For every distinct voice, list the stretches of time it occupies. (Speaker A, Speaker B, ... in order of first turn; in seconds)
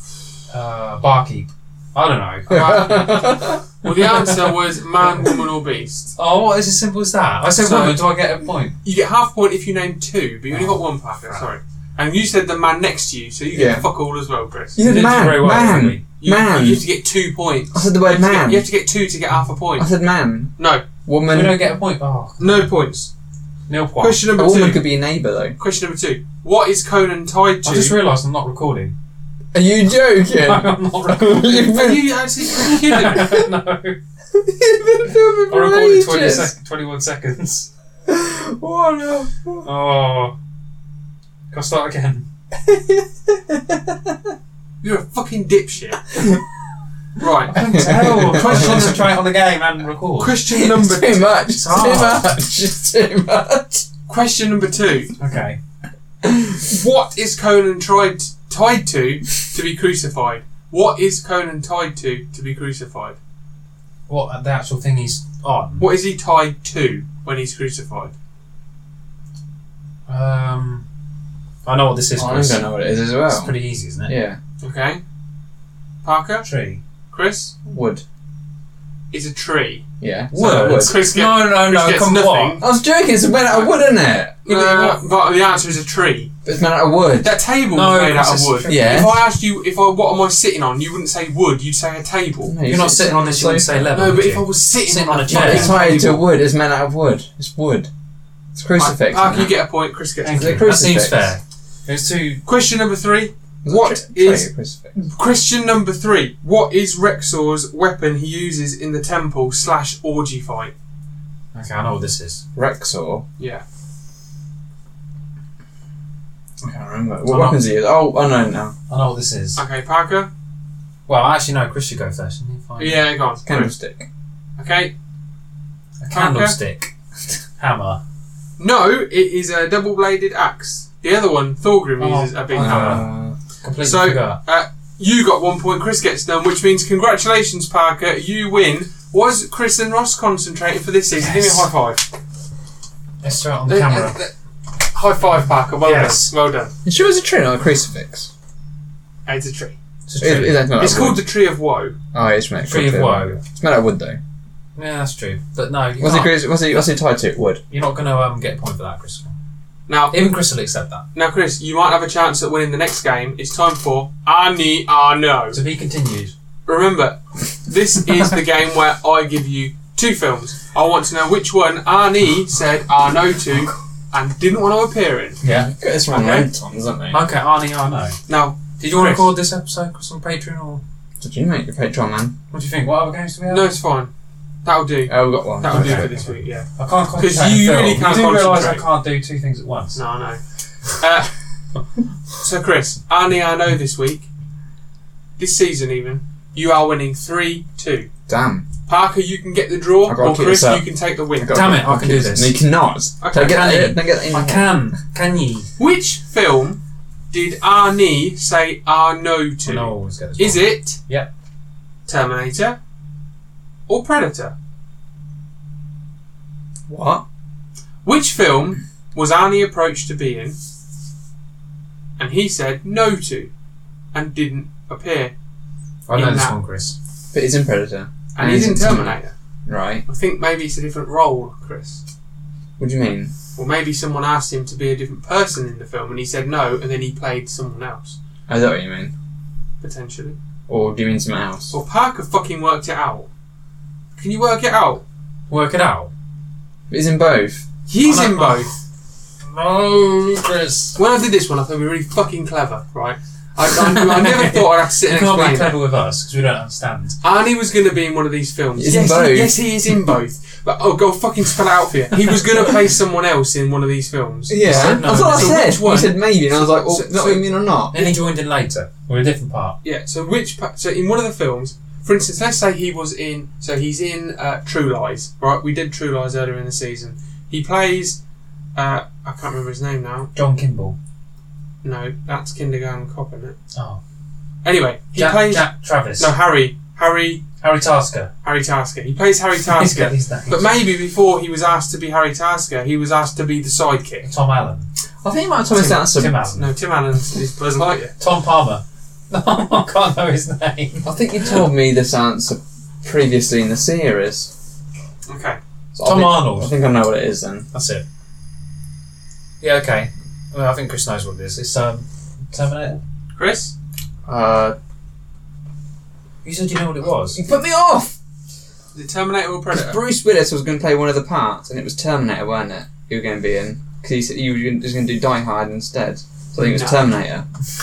Speaker A: 0.5-4.4, 6.2-8.7, 10.5-11.4, 14.8-16.0, 21.3-22.7, 23.7-24.3, 27.6-28.9, 30.3-31.7, 32.8-34.0, 35.5-37.7, 39.6-40.4, 41.5-42.3, 47.5-50.4, 51.5-52.4, 55.2-55.6, 64.1-65.9, 70.1-70.8, 71.7-72.7, 73.3-74.2, 76.4-76.8, 80.3-82.6, 87.7-88.8, 92.7-96.2, 100.2-102.4, 111.5-112.4, 117.3-117.6, 118.9-119.6, 121.1-123.1, 126.0-126.9, 127.6-128.0, 132.0-133.1, 133.6-134.4, 141.2-141.7, 143.2-144.2, 145.8-146.3, 150.1-150.7, 152.6-153.4, 154.8-156.4, 157.7-159.3, 160.1-161.0, 165.5-166.3, 175.4-175.7, 177.1-178.2, 178.8-180.8, 182.5-183.7, 185.6-190.0, 201.5-202.6, 203.3-205.7, 209.7-211.3, 226.1-226.9, 245.5-246.1, 248.0-248.7, 249.4-251.0, 253.8-257.2, 264.6-265.8, 267.9-269.8, 280.4-281.0, 283.7-284.0, 285.2-286.3, 287.6-288.3, 289.7-290.7, 294.2-294.9, 295.7-296.7, 298.2-301.1, 306.0-306.7, 307.7-308.0, 309.6-313.0, 316.4-317.4
Speaker B: 2.5-3.6, 13.5-13.9, 14.8-16.8, 17.7-18.7, 19.8-20.5, 21.1-21.6, 24.3-25.6, 29.5-33.4, 34.3-36.5, 38.1-39.7, 42.6-44.3, 47.6-49.0, 50.5-53.9, 56.2-56.5, 72.2-73.5, 74.1-74.4, 77.7-78.0, 80.0-81.0, 82.6-85.0, 86.5-87.4, 88.7-89.2, 92.5-94.0, 95.3-97.9, 98.5-99.5, 100.4-101.3, 103.6-105.0, 112.5-113.2, 116.6-118.8, 123.5-124.1, 132.6-133.4, 146.8-148.3, 150.2-151.3, 152.1-154.2, 156.0-157.6, 175.5-177.2, 181.2-182.3, 185.1-186.1, 198.3-198.7, 200.1-200.8, 201.4-204.7, 216.9-217.2, 227.3-230.1, 232.8-233.3, 238.5-239.1, 240.7-241.7, 246.9-247.7, 258.8-259.6, 264.5-268.1, 295.2-296.4, 301.0-304.5, 305.9-307.7, 314.3-314.8, 317.2-318.1, 319.7-327.4
Speaker C: 2.8-3.2, 3.8-6.2, 7.6-8.1, 8.8-14.8, 16.2-19.9, 20.6-20.9, 22.4-23.1, 24.0-24.8, 25.6-28.0, 31.5-33.3, 44.8-46.2, 47.2-47.6, 48.5-48.9, 50.2-52.2, 54.1-55.1, 56.6-63.2, 65.8-68.1, 74.6-75.0, 76.0-76.5, 77.1-77.5, 79.1-79.8, 80.4-82.6, 84.5-86.3, 87.2-92.5, 93.9-96.0, 98.8-100.7, 102.5-104.5, 105.1-110.7, 113.4-113.6, 119.6-120.3, 122.8-123.7, 124.6-124.9, 126.1-126.6, 128.6-133.1, 133.8-142.0, 143.7-144.3, 144.9-146.7, 149.3-149.8, 150.8-151.9, 159.9-160.2, 161.2-165.6, 166.7-175.4, 176.1-176.5, 178.3-179.3, 183.5-184.1, 184.7-188.9, 189.9-190.4, 190.9-191.3, 192.4-194.3, 195.4-198.1, 198.9-201.6, 203.2-203.6, 205.8-206.8, 207.3-211.0, 212.1-212.8, 213.9-214.5, 218.0-220.6, 222.2-223.5, 224.1-225.3, 226.1-226.6, 228.3-229.3, 230.1-232.0, 233.6-238.2, 239.8-240.4, 241.7-243.3, 244.2-245.0, 247.9-248.7, 251.0-255.8, 257.2-267.4, 269.8-278.2, 278.8-280.3, 281.8-283.6, 284.6-287.4, 288.4-294.3, 296.6-298.1, 305.3-305.6, 313.4-313.7, 318.9-320.0, 326.6-327.0